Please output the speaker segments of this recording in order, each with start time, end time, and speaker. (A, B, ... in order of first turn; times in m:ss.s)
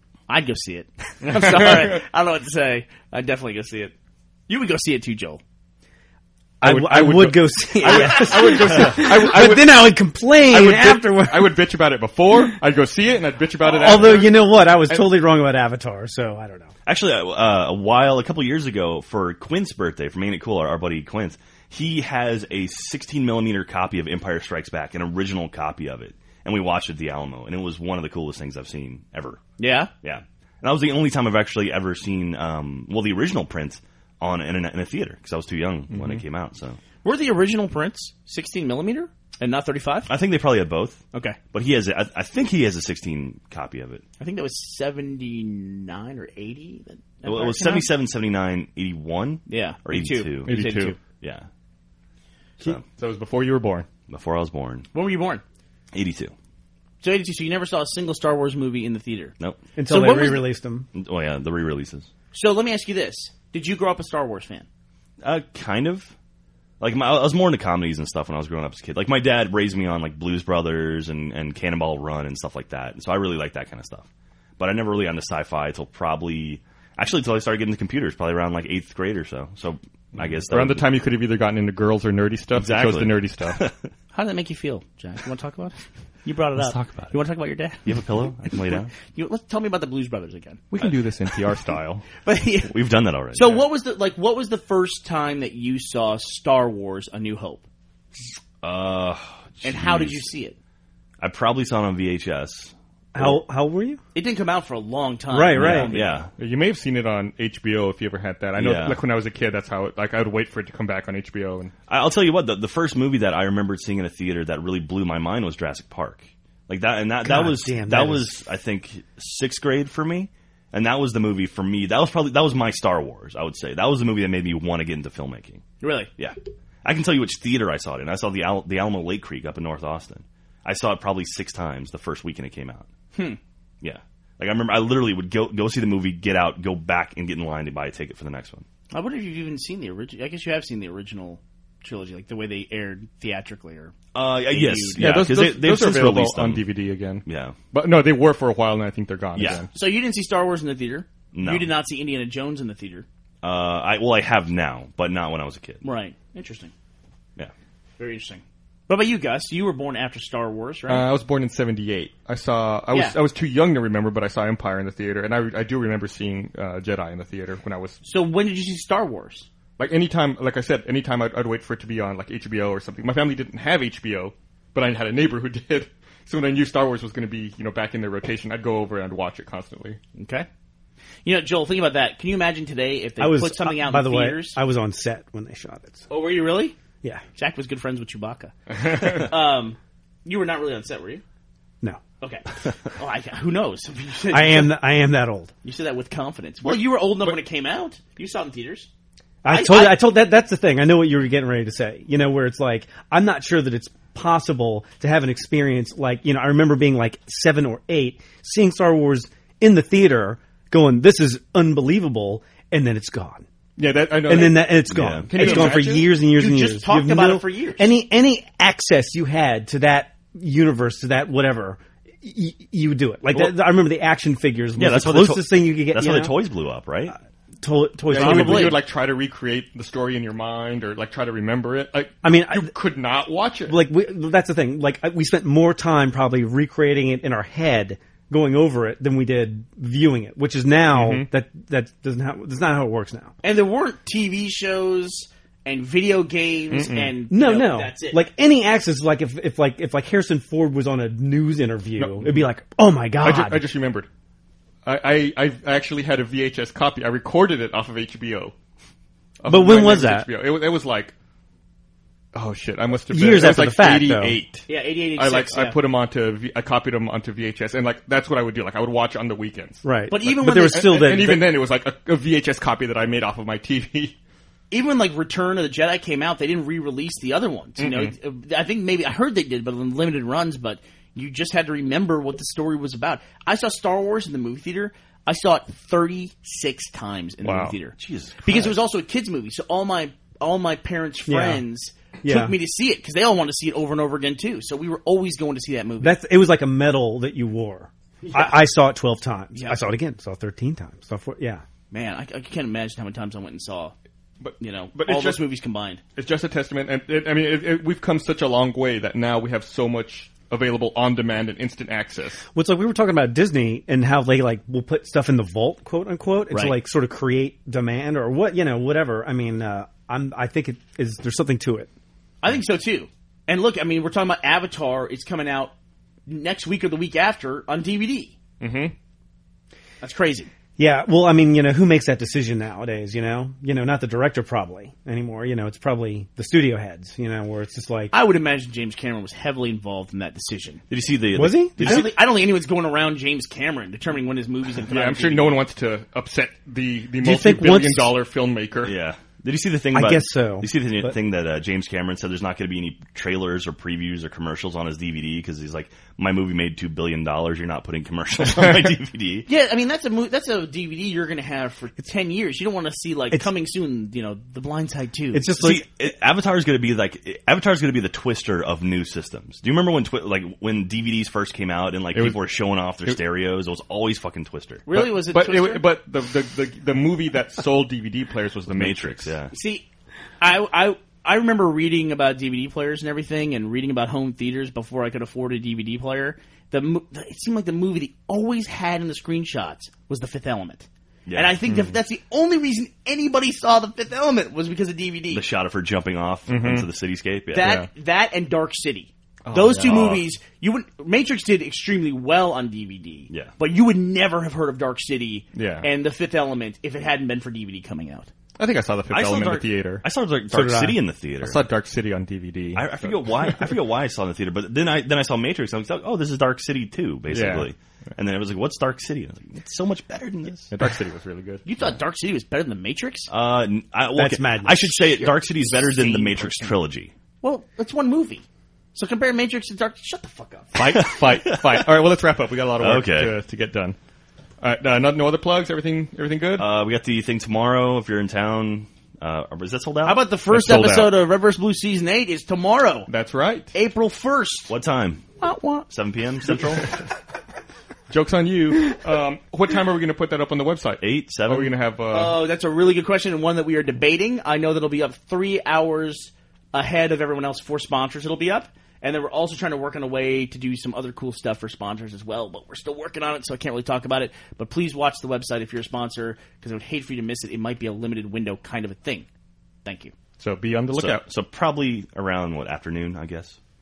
0:00.3-0:03.9 A
0:01.2-0:02.0 B
0:04.5-0:05.4 A
0:06.6-0:11.7 C
0:06.6-0:15.2 B
0:07.8-0:08.7 A
0:13.6-0:16.7 C
0:16.8-0:29.4 D
0:29.6-0:29.9 A
0:30.0-0:36.8 D
0:35.9-0:36.2 B
0:37.0-0:40.1 A
0:40.1-0:44.0 D
0:41.1-0:41.4 A
0:44.2-0:47.9 A
0:47.2-0:51.5 D
0:49.5-0:51.0 A
0:50.4-0:51.0 B
0:52.9-0:53.9 B
0:54.1-0:54.9 D
0:54.9-0:55.4 A
0:55.9-0:56.3 D
0:57.0-1:00.5 A
0:59.8-1:00.9 C
1:00.9-1:02.1 D
1:02.3-1:04.6 A
1:05.2-1:06.1 D
1:06.8-1:14.0 D
1:14.6-1:20.8 D
1:20.5-1:23.6 B
1:22.5-1:23.8 D
1:24.1-1:27.9 A
1:26.6-1:27.1 D
1:27.8-1:28.9 D
1:29.1-1:30.9 A
1:30.7-1:32.0 B
1:32.2-1:32.7 A
1:32.7-1:33.6 D
1:33.3-1:37.6 A
1:38.6-1:40.3 D
1:39.6-1:40.6 A
1:41.2-1:43.4 D
1:43.1-1:44.0 C
1:44.1-1:46.2 A
1:45.3-1:46.0 C
1:45.5-1:46.3 D
1:46.4-1:51.7 B
1:48.6-1:49.0 D
1:51.9-2:05.6 D
1:57.2-1:58.3 C
2:05.8-2:06.1 A
2:06.2-2:12.9 D
2:13.1-2:13.4 A
2:13.8-2:18.6 D
2:18.9-2:25.1 A
2:24.1-2:26.6 D
2:25.0-2:29.7 B
2:27.2-2:27.6 D
2:29.4-2:29.6 D
2:29.4-2:33.0 A
2:31.3-2:31.7 D
2:33.4-2:35.8 D
2:35.8-2:36.7 A
2:38.0-2:41.1 A
2:40.9-2:48.0 B
2:48.0-2:49.5 A
2:49.8-3:00.0 B
3:00.2-3:00.5 A
3:01.2-3:04.6 A
3:03.2-3:06.1 C
3:06.1-3:06.8 A
3:07.4-3:11.2 A
3:08.7-3:09.3 B
3:12.2-3:14.8 A
3:14.3-3:15.5 C
3:15.6-3:18.9 A
3:16.6-3:17.3 B
3:19.4-3:33.4 C
3:19.5-3:20.0 A
3:33.8-3:36.1 B
3:34.2-3:46.3 C
3:34.9-3:35.3 D
3:35.4-3:37.9 A
3:44.8-3:47.2 D
3:47.6-3:48.8 C
3:48.1-3:48.8 A
3:48.1-3:53.8 B
3:52.2-3:52.7 C
3:53.6-4:03.3 C
4:00.9-4:01.3 B
4:03.4-4:08.2 A
4:06.7-4:07.1 B
4:07.3-4:13.6 C
4:12.0-4:12.5 B
4:13.2-4:14.1 B
4:14.8-4:18.5 B
4:19.4-4:21.1 B
4:19.4-4:20.3 C
4:22.3-4:29.8 B
4:23.1-4:24.4 C
4:24.7-4:25.8 A
4:29.8-4:31.5 C
4:30.1-4:31.1 A
4:30.5-4:34.1 B
4:34.7-4:56.2 A
4:37.8-4:38.1 B
4:47.4-4:47.8 B
4:48.0-4:48.8 D
4:51.2-4:51.6 C
4:52.2-4:52.5 C
4:56.0-5:01.6 C
4:58.2-4:58.5 A
4:59.5-4:59.8 A
5:01.9-5:03.9 A
5:04.4-5:05.4 B
5:04.6-5:06.0 A
5:06.2-5:12.4 B
5:12.5-5:21.9 C
5:16.5-5:16.8 A
5:22.4-5:25.7 A
5:26.3-5:28.3 A
5:28.6-5:28.9 B
5:30.0-5:30.5 A
5:30.8-5:38.1 C
5:38.1-5:40.8 A
5:40.9-5:42.1 D
5:41.3-5:42.1 C
5:41.8-5:45.6 A
5:44.9-5:48.9 B
5:47.2-5:48.1 C
5:48.8-5:59.5 D
5:49.9-5:51.1 C
5:59.5-6:05.5 A
6:05.3-6:05.8 C
6:05.6-6:14.8 D
6:12.1-6:12.4 B
6:14.8-6:15.8 A
6:14.9-6:19.3 B
6:18.7-6:19.5 D
6:19.5-6:19.8 A
6:20.4-6:35.4 A
6:31.3-6:31.6 D
6:31.7-6:32.0 B
6:35.3-6:37.7 D
6:36.5-6:36.9 B
6:37.5-6:48.3 A
6:37.6-6:37.9 B
6:39.4-6:40.2 B
6:45.5-6:45.9 B
6:48.6-6:50.0 B
6:49.1-6:51.6 D
6:50.5-6:51.0 C
6:51.4-6:53.7 B
6:52.7-7:00.7 D
6:57.3-6:57.7 B
7:00.7-7:01.6 B
7:01.6-7:03.3 A
7:03.3-7:07.1 D
7:04.1-7:05.0 C
7:05.0-7:06.8 A
7:07.4-7:11.0 A
7:10.8-7:14.0 B
7:10.8-7:11.9 D
7:12.8-7:13.3 D
7:14.6-7:16.7 B
7:16.6-7:20.2 D
7:20.0-7:23.1 A
7:20.5-7:21.1 B
7:23.1-7:23.7 B
7:23.7-7:24.7 A
7:24.7-7:25.3 D
7:25.4-7:25.9 A
7:25.9-7:26.8 D
7:26.5-7:26.8 B
7:28.1-7:32.4 B
7:31.0-7:31.7 D
7:32.1-7:49.3 A
7:49.8-7:50.1 A
7:50.4-7:51.2 B
7:50.9-7:53.6 D